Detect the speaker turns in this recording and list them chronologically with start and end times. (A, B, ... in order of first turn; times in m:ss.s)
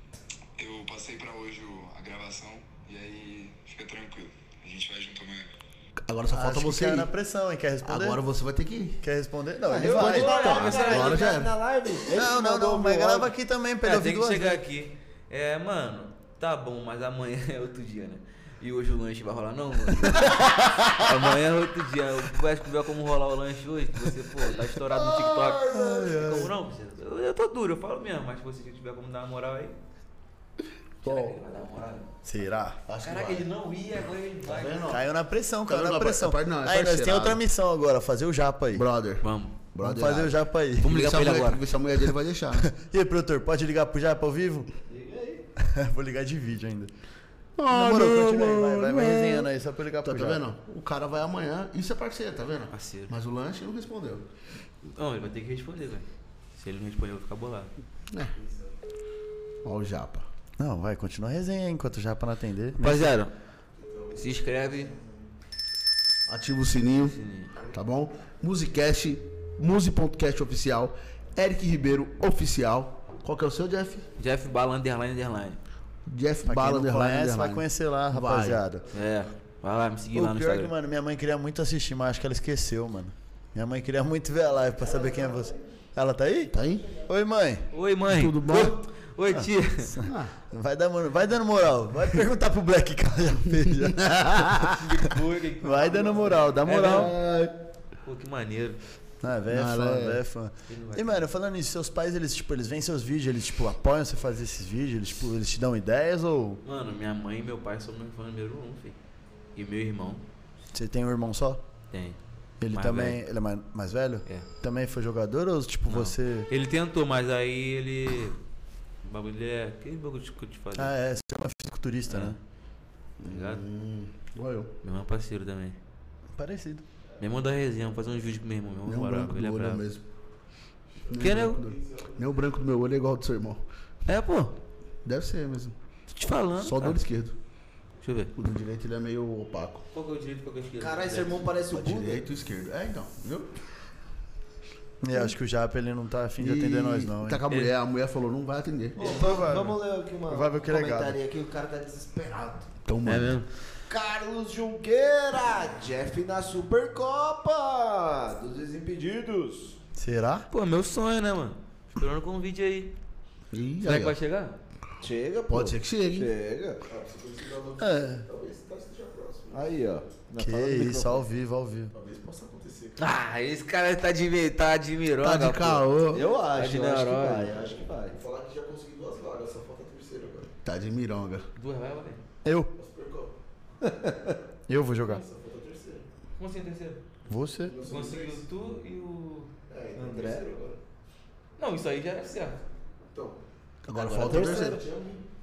0:00.6-0:05.5 A
0:06.1-0:07.1 B
0:06.3-0:08.2 C
0:07.8-0:09.0 B
0:09.0-0:10.5 C
0:09.7-0:13.3 D
0:09.8-0:11.4 E
0:10.4-0:11.5 B
0:12.1-0:14.6 C
0:13.8-0:29.8 E
0:20.4-0:20.9 C
0:25.3-0:26.5 C
0:31.0-0:32.1 E
0:31.0-0:31.4 B
0:32.2-0:32.8 C
0:32.9-0:33.5 B
0:33.0-0:35.0 E
0:34.4-0:35.0 B
0:34.9-0:38.9 C
0:35.7-0:37.4 B
0:38.7-0:42.7 B
0:39.2-0:39.6 E
0:39.8-0:41.0 C
0:40.8-0:41.7 E
0:42.5-0:44.7 C
0:44.9-0:45.4 D
0:45.6-0:46.9 C
0:47.6-0:49.5 B
0:47.7-0:50.4 C
0:50.0-0:54.3 B
0:52.7-0:53.1 E
0:54.8-0:57.7 E
0:58.4-0:58.7 F
0:59.6-1:00.3 B
1:00.6-1:03.2 C
1:02.8-1:03.3 E
1:03.8-1:05.2 F
1:04.2-1:04.9 E
1:06.3-1:14.1 B
1:07.0-1:07.5 E
1:14.2-1:15.6 E
1:16.1-1:18.6 B
1:16.4-1:18.8 C
1:18.9-1:20.7 E
1:20.1-1:27.7 C
1:26.5-1:26.9 B
1:27.7-1:30.0 E
1:28.1-1:28.8 B
1:29.3-1:35.1 C
1:30.0-1:30.3 B
1:34.1-1:34.7 B
1:34.7-1:37.2 E
1:35.6-1:37.1 C
1:36.8-1:37.6 B
1:38.0-1:38.8 E
1:39.2-1:46.6 C
1:39.5-1:40.2 B
1:40.7-1:41.2 E
1:46.6-1:49.0 E
1:49.6-1:50.2 E
1:50.7-1:51.6 C
1:51.9-1:52.2 E
1:52.6-1:56.5 C
1:52.7-1:53.2 E
1:55.9-1:58.4 E
1:59.0-2:00.9 E
2:00.8-2:02.4 C
2:02.1-2:02.4 E
2:03.2-2:04.7 B
2:03.2-2:03.6 E
2:04.8-2:05.8 E
2:06.4-2:06.8 C
2:07.2-2:09.8 E
2:08.9-2:10.0 B
2:11.0-2:12.3 F
2:11.1-2:13.6 B
2:11.2-2:11.6 E
2:14.1-2:14.6 E
2:15.0-2:15.8 B
2:16.1-2:17.0 E
2:16.6-2:17.4 B
2:18.0-2:18.3 E
2:18.4-2:19.8 B
2:19.9-2:21.5 E
2:20.8-2:22.3 D
2:21.7-2:23.6 B
2:25.0-2:27.4 C
2:26.4-2:29.2 B
2:27.5-2:27.7 E
2:29.0-2:32.7 D
2:29.0-2:31.2 C
2:32.9-2:33.4 B
2:33.0-2:33.5 E
2:33.9-2:39.8 D
2:40.0-2:40.5 C
2:40.5-2:43.0 E
2:43.5-2:44.2 B
2:43.8-2:44.6 E
2:45.0-2:46.8 D
2:45.5-2:46.3 B
2:46.8-2:49.7 F
2:47.8-2:48.2 C
2:49.5-2:51.2 D
2:50.4-2:51.9 C
2:51.9-2:53.0 F
2:53.0-2:57.5 E
2:55.2-2:56.2 B
2:56.1-2:58.2 D
2:57.5-3:00.5 F
3:00.6-3:01.5 B
3:01.6-3:02.2 E
3:02.4-3:02.7 C
3:02.7-3:03.4 F
3:03.8-3:04.4 D
3:04.7-3:05.2 C
3:05.0-3:06.0 F
3:06.4-3:07.0 E
3:07.3-3:07.8 C
3:07.6-3:08.4 F
3:07.8-3:09.5 E
3:09.7-3:10.8 F
3:10.0-3:10.5 D
3:11.6-3:12.6 E
3:13.1-3:13.4 F
3:13.8-3:14.8 B
3:13.9-3:14.8 D
3:14.0-3:15.2 F